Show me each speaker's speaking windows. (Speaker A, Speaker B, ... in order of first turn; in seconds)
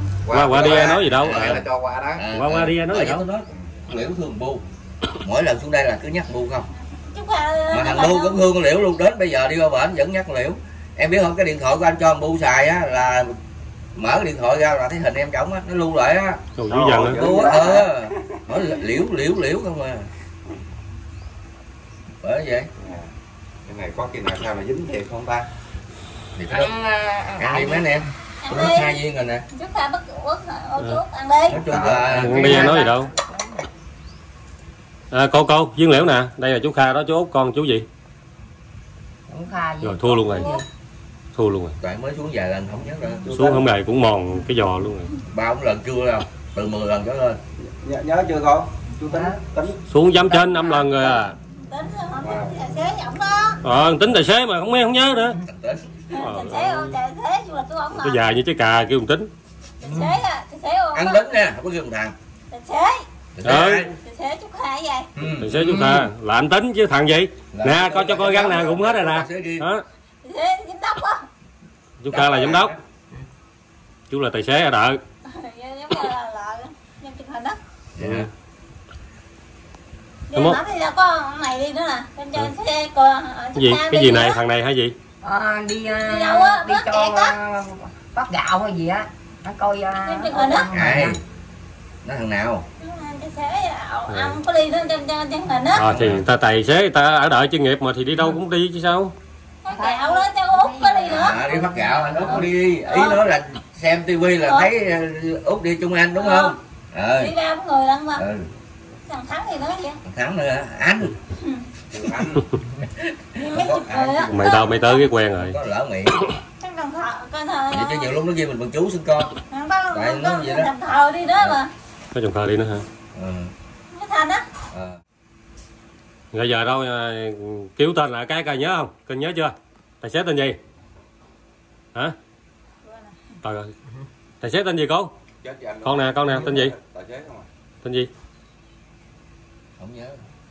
Speaker A: 0.2-2.2, 16.7-18.1, 22.8-23.1, 23.6-25.5, 31.5-32.8, 47.6-49.8, 52.2-52.6, 111.9-112.4, 135.4-137.5
Speaker B: 0.3-1.6, 2.3-3.2, 16.6-17.2, 32.1-33.1, 35.1-37.9, 39.8-40.5, 41.3-41.7, 43.3-45.1, 49.9-51.4, 53.6-55.4, 56.1-57.0, 58.0-59.3, 63.4-63.9, 65.4-69.8, 72.0-72.7, 74.1-75.0, 78.0-78.3, 83.5-85.0, 94.1-94.3, 95.8-99.1, 114.3-115.6, 122.1-122.8, 126.3-130.6, 133.4-133.7, 134.4-135.1, 135.8-136.7, 137.8-138.1
Speaker C: 0.5-1.6, 2.1-4.6, 5.2-6.7, 7.7-13.3, 13.9-16.4, 17.1-20.1, 22.2-22.7, 26.4-26.7, 27.4-29.4, 31.5-32.3, 41.8-43.4, 45.3-47.4, 55.5-56.0, 60.9-62.1, 63.4-64.0, 65.2-65.9, 67.5-69.7, 72.1-72.8, 78.0-78.3, 90.8-91.2, 92.0-92.6, 95.9-96.2, 101.1-107.3, 108.1-108.5, 110.0-111.1, 113.0-114.0, 115.5-116.2, 117.7-119.3, 119.9-120.7, 123.1-123.5, 124.7-125.0, 139.8-140.2
Speaker D: 7.0-8.4, 28.4-29.0, 29.5-31.6, 40.3-40.6, 51.6-53.6, 56.1-58.2, 59.8-61.3, 62.5-63.0, 64.0-65.1, 70.2-71.2, 75.2-77.6, 80.3-84.4, 86.0-87.3, 90.0-90.7, 92.8-95.9, 99.6-101.4, 102.2-103.2, 104.4-104.7, 106.2-106.5, 107.2-108.2, 109.1-110.0, 113.4-115.0, 116.6-118.2, 119.4-121.7, 123.9-124.5, 132.8-133.1
Speaker E: 26.5-28.1, 32.3-33.6, 39.3-40.6, 49.1-49.4, 50.2-51.2, 59.8-60.1, 85.2-91.2, 99.7-102.6